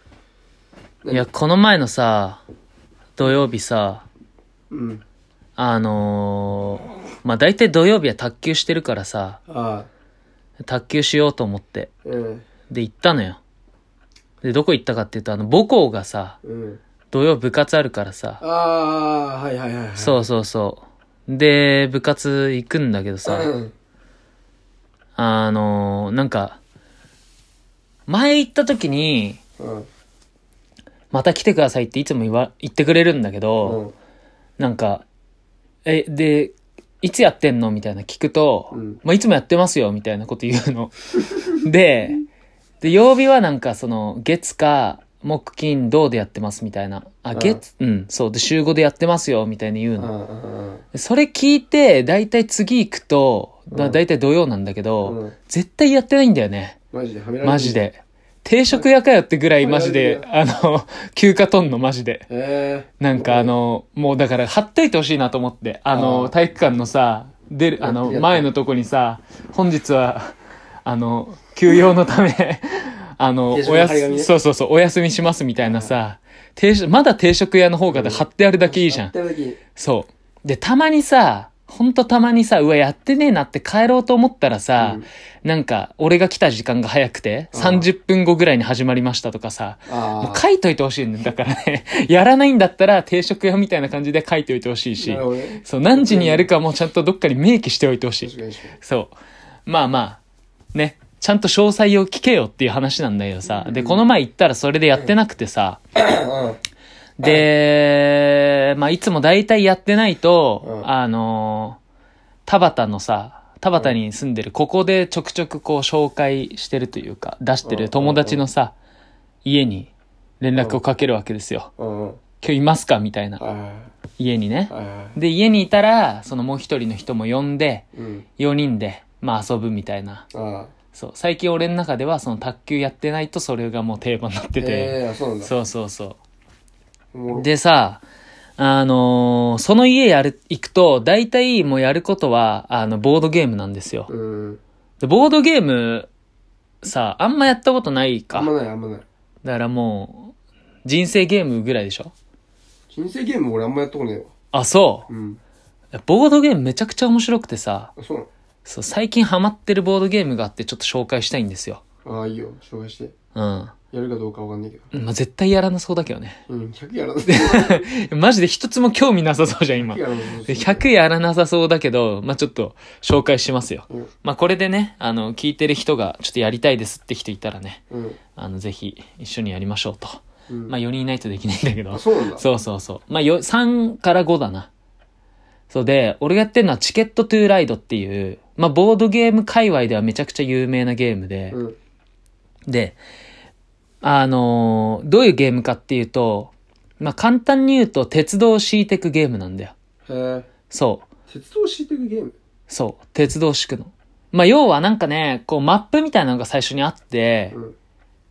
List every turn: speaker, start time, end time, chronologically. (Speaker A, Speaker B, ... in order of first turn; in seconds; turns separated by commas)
Speaker A: 1.1-2.4, Speaker A: 3.2-4.0, Speaker B: 4.7-5.0, Speaker A: 5.6-9.4, Speaker B: 9.5-9.9, Speaker A: 10.6-11.9, Speaker B: 12.0-12.5, Speaker A: 12.7-13.4, Speaker A: 14.4-16.4, Speaker B: 16.4-16.8, Speaker A: 17.1-18.4, Speaker B: 18.4-20.2, Speaker A: 19.9-23.5, Speaker B: 23.2-23.7, Speaker A: 25.2-26.6, Speaker A: 28.1-29.4, Speaker B: 29.6-29.9, Speaker A: 31.1-33.8, Speaker B: 33.6-33.9, Speaker A: 34.6-35.0, Speaker A: 35.8-42.2, Speaker B: 38.7-39.0, Speaker A: 42.8-50.1, Speaker B: 47.3-47.6, Speaker B: 50.0-50.8, Speaker A: 50.9-56.8, Speaker B: 53.7-54.0, Speaker B: 55.0-55.3, Speaker B: 56.9-57.8, Speaker A: 57.4-62.3, Speaker B: 59.6-60.3, Speaker B: 62.3-63.5, Speaker A: 63.0-70.3, Speaker B: 65.9-66.3, Speaker B: 67.8-68.5, Speaker A: 70.9-79.1, Speaker B: 73.5-74.3, Speaker B: 75.6-75.9, Speaker B: 77.9-79.6, Speaker A: 79.8-99.1, Speaker B: 84.8-85.1, Speaker B: 87.5-87.9, Speaker B: 89.9-90.4, Speaker B: 95.0-96.5, Speaker B: 98.2-98.8, Speaker A: 99.7-100.2, Speaker A: 100.7-105.8, Speaker B: 103.5-104.0, Speaker B: 106.0-106.6, Speaker A: 107.2-111.8, Speaker B: 110.6-110.9, Speaker A: 112.5-118.7, Speaker B: 117.6-118.4, Speaker A: 119.4-121.7, Speaker B: 121.8-122.2, Speaker A: 122.4-123.4, Speaker B: 123.4-123.9, Speaker A: 124.2-127.8, Speaker B: 124.7-125.2, Speaker B: 127.9-128.2, Speaker A: 128.4-130.2, Speaker B: 130.3-130.7, Speaker A: 130.9-136.2, Speaker B: 134.6-135.5, Speaker B: 137.1-137.5, Speaker A: 137.3-138.0, Speaker A: 138.6-144.1, Speaker B: 144.1-144.6, Speaker A: 145.0-146.1, Speaker A: 146.8-148.5, Speaker B: 148.3-149.1, Speaker A: 149.4-150.3, Speaker A: 150.8-152.1, Speaker B: 152.9-154.3, Speaker A: 154.5-155.1, Speaker B: 155.1-155.4, Speaker A: 155.9-157.9, Speaker B: 158.0-158.3, Speaker A: 158.7-161.8, Speaker B: 162.1-163.1, Speaker A: 163.3-163.8, Speaker B: 163.9-164.9, Speaker A: 164.9-166.4, Speaker B: 166.5-167.9, Speaker A: 167.2-177.8, Speaker B: 169.8-170.8, Speaker B: 177.9-178.2, Speaker A: 178.3-184.7, Speaker B: 180.5-180.8, Speaker B: 181.9-182.4, Speaker A: 185.7-191.6, Speaker B: 191.5-191.8, Speaker A: 192.7-193.0, Speaker A: 194.0-199.7, Speaker B: 200.1-200.5, Speaker A: 200.7-201.1, Speaker B: 201.3-202.3, Speaker A: 202.7-207.6